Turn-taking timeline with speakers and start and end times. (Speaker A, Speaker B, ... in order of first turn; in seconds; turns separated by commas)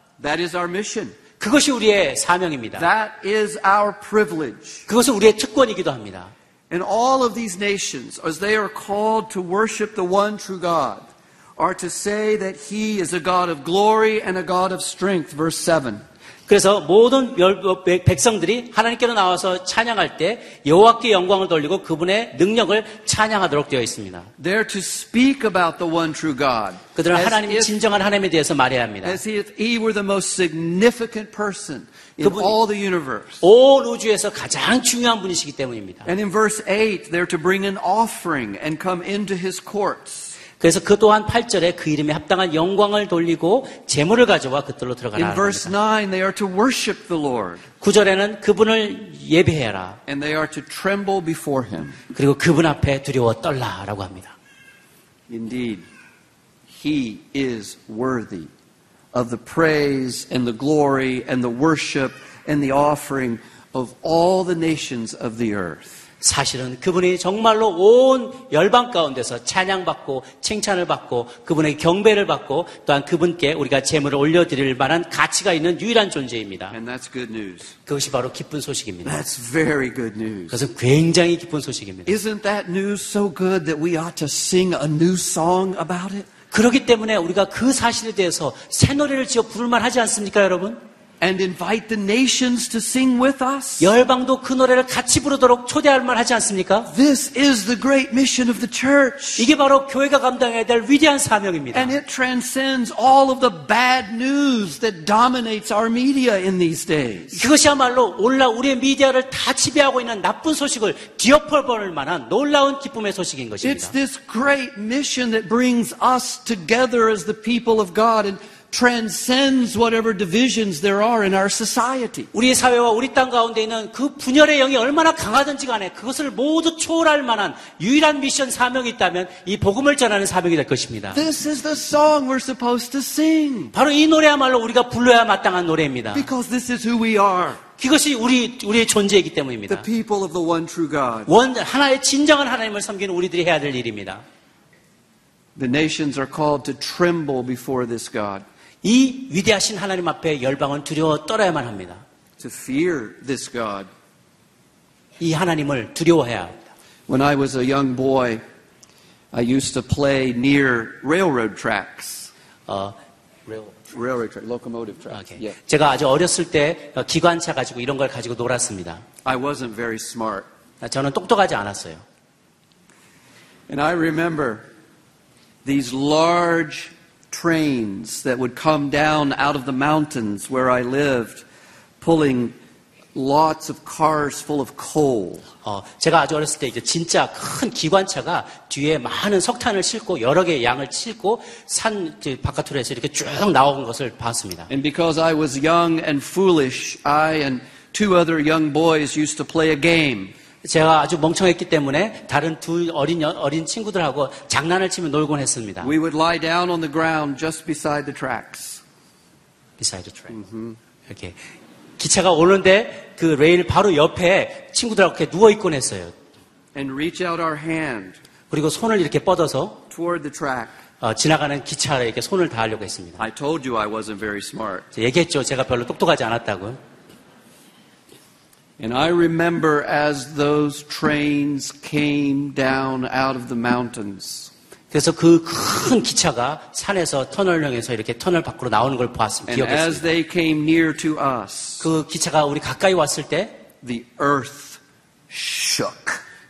Speaker A: 0.2-1.1, Speaker B: 1.4-2.9, Speaker A: 2.8-4.9, Speaker B: 4.9-6.3, Speaker A: 6.7-11.1, Speaker A: 11.6-16.0, Speaker B: 16.5-24.3, Speaker A: 24.4-27.7, Speaker B: 27.0-29.2, Speaker A: 29.0-33.4, Speaker B: 32.2-32.5, Speaker B: 33.4-36.1, Speaker A: 36.1-40.4, Speaker B: 40.6-45.7, Speaker A: 45.2-47.6, Speaker B: 47.8-50.0, Speaker A: 50.1-52.0, Speaker B: 52.1-54.4, Speaker A: 55.3-55.8, Speaker A: 56.7-58.5, Speaker A: 59.1-65.9, Speaker B: 66.2-76.8, Speaker A: 76.7-77.7, Speaker B: 77.9-79.2, Speaker A: 79.0-80.6, Speaker B: 80.5-82.2, Speaker A: 82.1-86.3, Speaker B: 86.5-90.8, Speaker A: 91.2-93.9, Speaker B: 93.8-96.9, Speaker A: 96.9-99.5, Speaker B: 99.4-102.0, Speaker A: 101.7-107.4, Speaker B: 107.3-113.9, Speaker A: 113.6-122.3, Speaker B: 122.3-131.2, Speaker A: 131.1-133.7, Speaker B: 133.7-136.3, Speaker A: 136.1-137.6, Speaker B: 137.8-139.9, Speaker A: 139.7-141.3, Speaker B: 141.3-144.2, Speaker A: 145.6-148.4, Speaker B: 148.8-152.0, Speaker A: 152.4-153.9, Speaker B: 155.2-156.6, Speaker A: 157.1-158.4, Speaker A: 159.3-162.3, Speaker B: 162.7-163.8, Speaker A: 163.9-165.6, Speaker B: 165.1-169.0, Speaker A: 169.2-170.5, Speaker B: 170.8-172.0, Speaker A: 173.7-174.7, Speaker A: 175.7-181.5, Speaker A: 182.0-182.6, Speaker A: 183.2-185.4, Speaker B: 185.6-194.7, Speaker A: 194.7-200.3, Speaker B: 200.6-205.9, Speaker A: 205.8-208.8, Speaker B: 209.8-210.4, Speaker A: 210.3-210.8, Speaker B: 211.1-211.4, Speaker B: 212.0-216.1, Speaker A: 216.8-218.2, Speaker B: 218.5-219.8, Speaker A: 219.9-220.8, Speaker B: 221.0-223.3, Speaker A: 223.2-224.9, Speaker B: 224.9-226.8, Speaker A: 228.8-234.5, Speaker B: 234.9-240.1, Speaker A: 239.5-241.8, Speaker B: 241.8-243.6, Speaker A: 243.8-244.8, Speaker A: 245.3-246.2